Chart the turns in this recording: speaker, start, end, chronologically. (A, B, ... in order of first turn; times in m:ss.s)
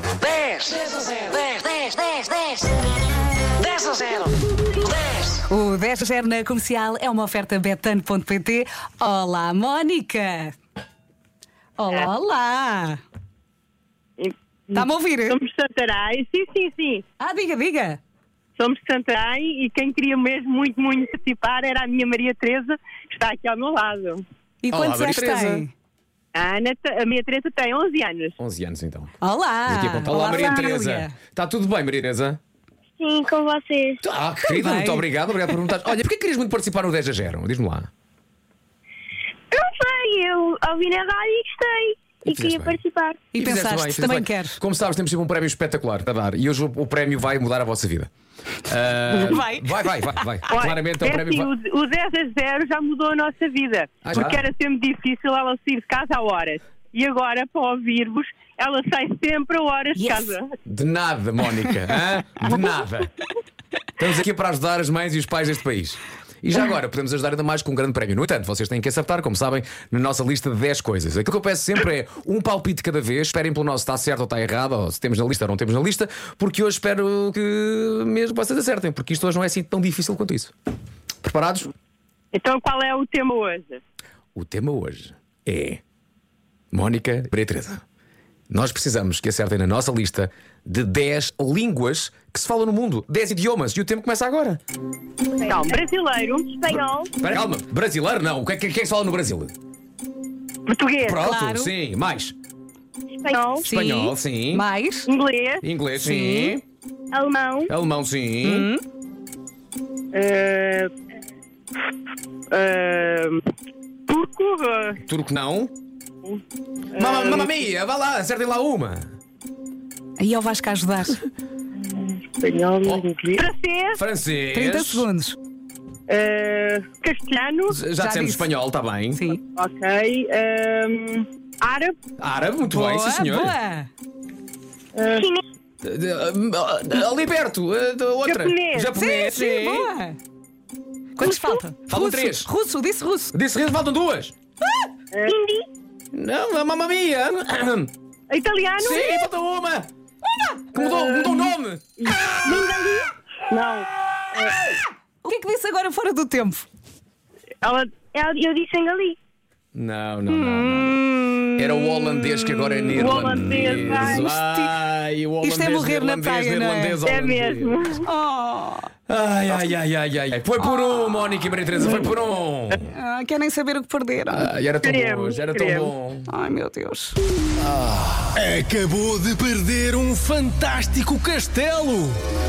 0:00.2-0:02.7 A
0:03.5-0:05.4 A
0:05.5-0:10.6 B
0:11.8-0:13.0 B
0:14.2-0:17.0 C
0:14.7-0:15.4 B
0:17.2-0:18.0 B
0:18.6-0:24.2 C
0:24.6-0:25.7 B
0:24.7-0:25.6 D
0:26.3-0:28.4 C
0:28.4-0:29.1 D
0:29.2-0:31.2 B
0:29.6-0:32.4 D
0:33.0-0:34.0 E
0:34.0-0:37.9 D
0:34.5-0:35.0 B
0:39.5-0:43.2 E
0:42.3-0:42.8 D
0:43.3-0:44.6 B
0:43.3-0:48.1 D
0:48.6-0:51.5 D
0:49.2-0:50.5 B
0:50.5-1:00.5 C
0:54.0-0:54.4 D
0:59.9-1:00.3 B
1:00.7-1:03.1 D
1:04.0-1:20.5 D
1:21.2-1:21.7 D
1:22.3-1:23.8 C
1:24.3-1:25.8 D
1:26.7-1:27.8 D
1:28.5-1:34.6 D
1:35.3-1:35.8 E
1:35.4-1:36.8 C
1:36.6-1:37.1 E
1:37.2-1:39.5 D
1:40.7-1:41.2 C
1:41.0-1:42.3 D
1:41.2-1:41.7 B
1:43.2-1:43.6 E
1:43.6-1:45.1 B
1:43.7-1:44.6 D
1:45.1-1:45.6 C
1:45.6-1:46.6 D
1:46.0-1:46.6 B
1:47.1-1:47.7 E
1:47.7-1:48.7 D
1:48.4-1:48.8 B
1:50.1-1:50.9 C
1:52.5-1:53.4 C
1:54.1-1:55.0 C
1:55.0-1:55.7 D
1:56.9-1:57.6 C
1:57.0-1:59.1 D
2:00.2-2:01.2 B
2:01.8-2:04.0 C
2:03.9-2:05.1 D
2:04.5-2:05.4 B
2:06.1-2:07.8 C
2:07.7-2:09.2 D
2:08.0-2:08.5 B
2:09.1-2:09.4 B
2:09.6-2:11.9 C
2:12.2-2:13.6 D
2:12.7-2:13.9 B
2:14.9-2:15.3 C
2:15.1-2:15.4 E
2:15.8-2:19.9 D
2:18.2-2:19.0 C
2:18.9-2:20.2 B
2:21.2-2:23.3 B
2:21.9-2:22.5 D
2:23.3-2:24.3 D
2:25.3-2:25.6 E
2:26.1-2:27.9 D
2:28.3-2:29.2 C
2:28.8-2:29.9 D
2:30.7-2:31.8 D
2:30.7-2:31.4 C
2:32.0-2:34.5 C
2:35.2-2:36.7 B
2:37.6-2:37.9 C
2:38.1-2:39.2 E
2:39.7-2:41.0 D
2:40.3-2:41.5 B
2:41.6-2:47.8 D
2:42.9-2:44.3 C
2:43.8-2:44.7 B
2:45.4-2:47.0 B
2:47.0-2:48.0 C
2:48.0-2:48.9 B
2:49.1-2:52.9 D
2:52.9-2:54.5 B
2:54.3-2:56.3 D
2:54.8-2:55.9 C
2:56.3-2:57.2 B
2:57.6-2:58.3 D
2:58.4-3:02.2 F